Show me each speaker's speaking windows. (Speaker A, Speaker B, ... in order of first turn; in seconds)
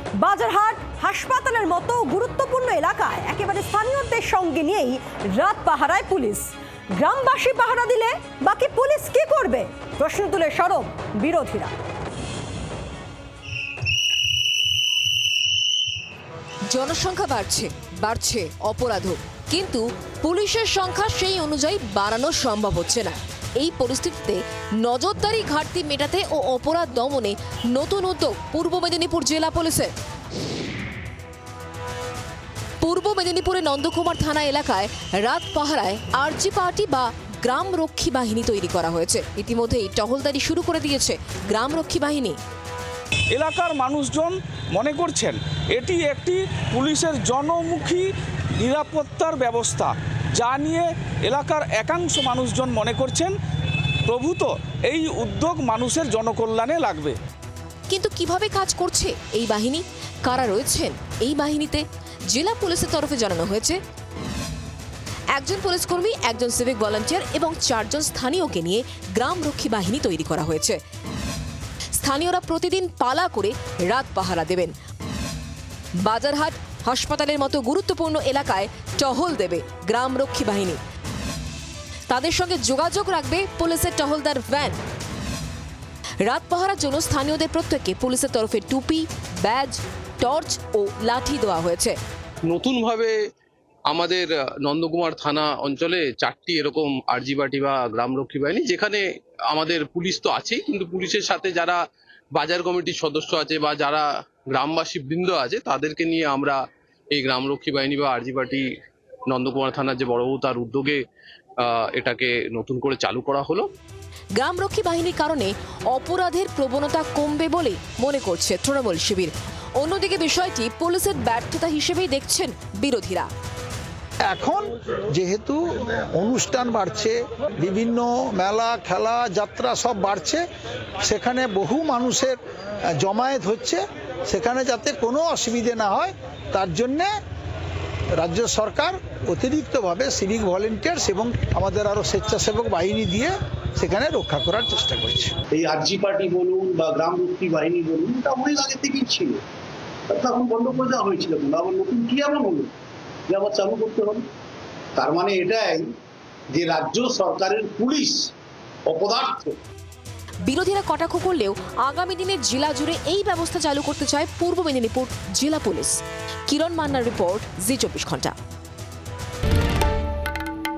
Speaker A: 0.2-11.7
Speaker B: 16.7-29.9, 32.8-42.4, 57.9-63.8, 65.4-70.8, 72.0-74.7, 76.1-80.8, 82.1-84.8, 86.3-92.0, 114.4-123.3, 160.5-168.3
Speaker C: 43.3-53.4, 54.1-57.2
Speaker D: 92.5-93.2, 93.9-101.8, 102.3-106.6, 107.1-108.7, 109.3-111.0, 111.6-113.7
Speaker E: 124.3-130.4, 131.0-132.4, 133.0-137.1, 138.2-145.3
Speaker F: 145.6-149.4, 150.1-152.7, 153.3-154.2, 155.0-155.9, 156.6-158.3, 158.9-159.6